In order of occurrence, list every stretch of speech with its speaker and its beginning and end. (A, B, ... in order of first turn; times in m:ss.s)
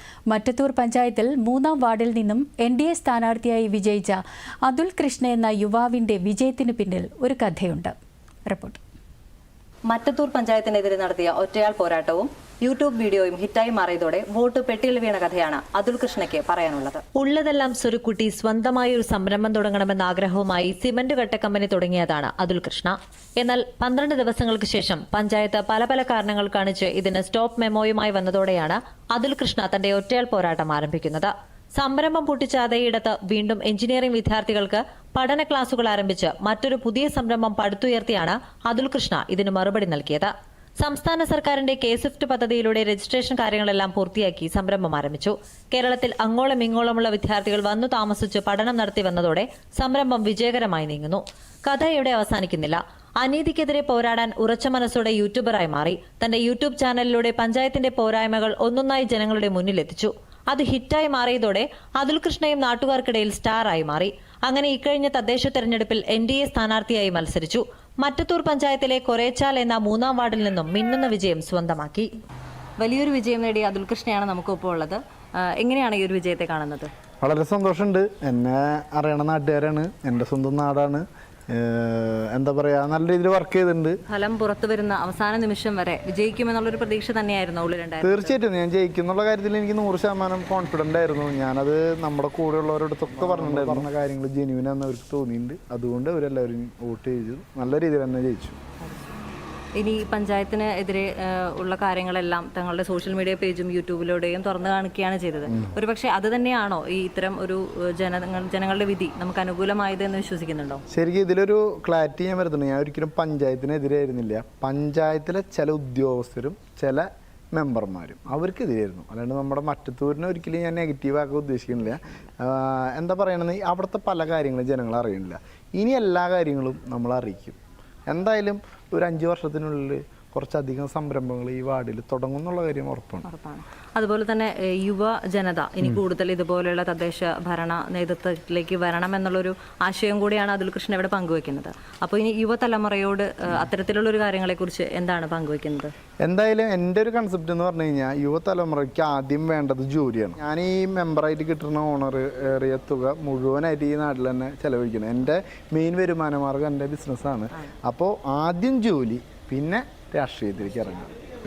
0:00.3-0:07.9 A
0:08.5-0:08.8 A
0:09.9-0:17.0 B
0:17.2-1:12.1 C
1:12.8-1:16.9 B
1:17.2-1:24.0 D
1:24.1-1:28.4 B
1:28.0-1:38.6 D
1:39.8-1:50.8 B
1:50.9-2:13.2 D
2:13.2-2:25.9 B
2:26.2-2:41.1 D